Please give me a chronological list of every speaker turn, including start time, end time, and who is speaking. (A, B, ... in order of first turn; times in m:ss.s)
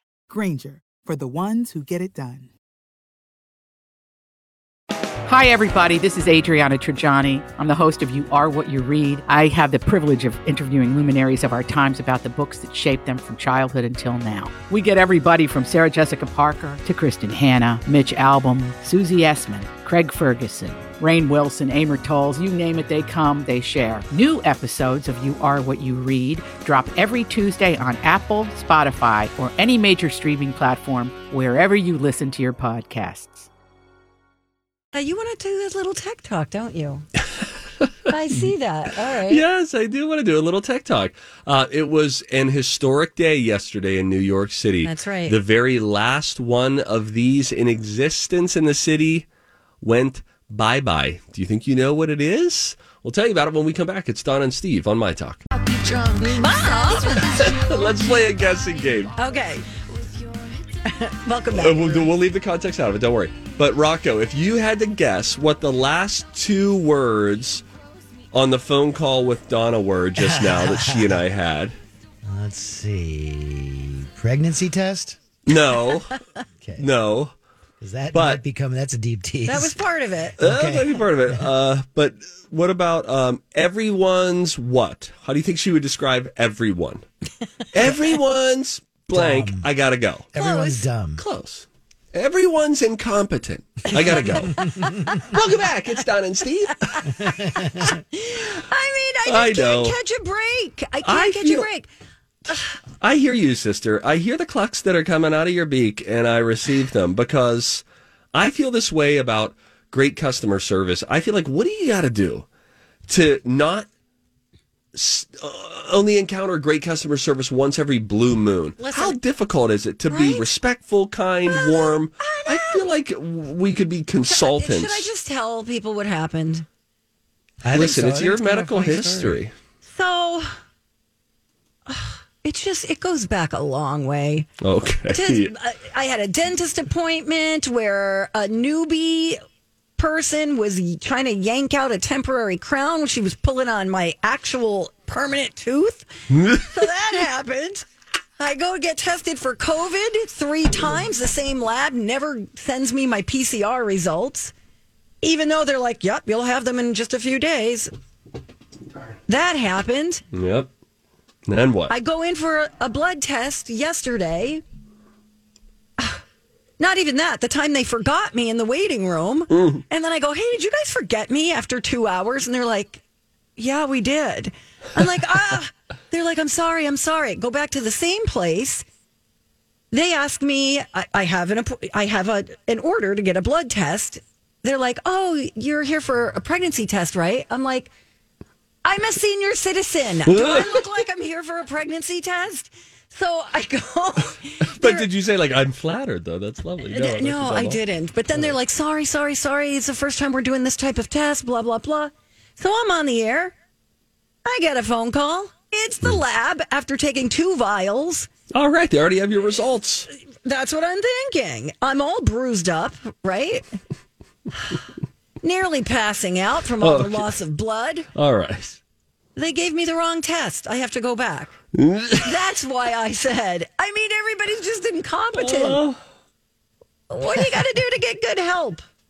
0:00.3-0:02.5 A
0:05.2-0:33.5 B
0:34.9-0:37.1 C
0:37.8-0:38.5 D
0:38.1-0:39.4 C
0:39.3-0:49.3 D
0:44.8-0:45.4 C
0:49.8-0:55.4 D
0:56.2-0:57.4 C
0:56.7-0:59.1 D
0:59.2-0:59.6 C
1:00.8-1:02.1 C
1:01.5-1:07.6 D
1:08.3-1:11.7 D
1:10.2-1:11.2 E
1:12.2-1:15.2 E
1:15.4-1:16.1 D
1:16.6-1:16.9 E
1:16.8-1:17.3 D
1:17.8-1:19.8 E
1:18.1-1:18.4 D
1:19.4-1:20.4 C
1:20.4-1:21.5 E
1:20.4-1:27.0 D
1:27.7-1:30.3 D
1:29.1-1:29.7 E
1:30.3-1:31.2 E
1:30.4-1:30.9 C
1:31.2-1:34.6 D
1:33.9-1:35.2 C
1:34.2-1:35.2 E
1:35.2-1:37.1 D
1:37.1-1:38.0 E
1:37.6-1:41.9 C
1:39.2-1:40.0 D
1:41.0-1:41.7 D
1:43.0-1:52.5 D
1:53.1-1:53.8 D
1:54.9-2:05.1 D
1:58.8-1:59.2 C
2:00.1-2:00.5 C
2:01.5-2:02.8 C
2:04.3-2:06.6 C
2:07.6-2:09.4 E
2:07.7-2:09.5 D
2:09.8-2:10.5 C
2:11.9-2:14.5 C
2:14.6-2:15.5 D
2:15.1-2:19.4 C
2:20.0-2:27.8 C
2:26.3-2:26.9 D
2:28.4-2:34.5 C
2:35.2-2:37.9 C
2:39.3-2:40.2 C
2:40.3-2:40.7 D
2:41.4-2:41.9 D
2:41.9-2:44.6 C
2:46.8-2:53.0 C
2:49.5-2:49.8 D
2:53.6-2:58.8 C
2:59.9-3:07.9 C
3:08.8-3:15.1 C
3:10.3-3:10.8 D
3:14.8-3:17.8 D
3:16.8-3:23.5 C
3:24.4-3:28.3 C
3:28.5-3:30.1 D
3:30.4-3:33.7 C
3:35.4-3:38.1 C
3:36.8-3:37.3 D
3:38.1-3:38.8 D
3:39.4-3:41.5 C
3:41.7-3:42.3 D
3:42.2-3:45.8 C
3:45.4-3:46.0 D
3:47.1-3:48.8 C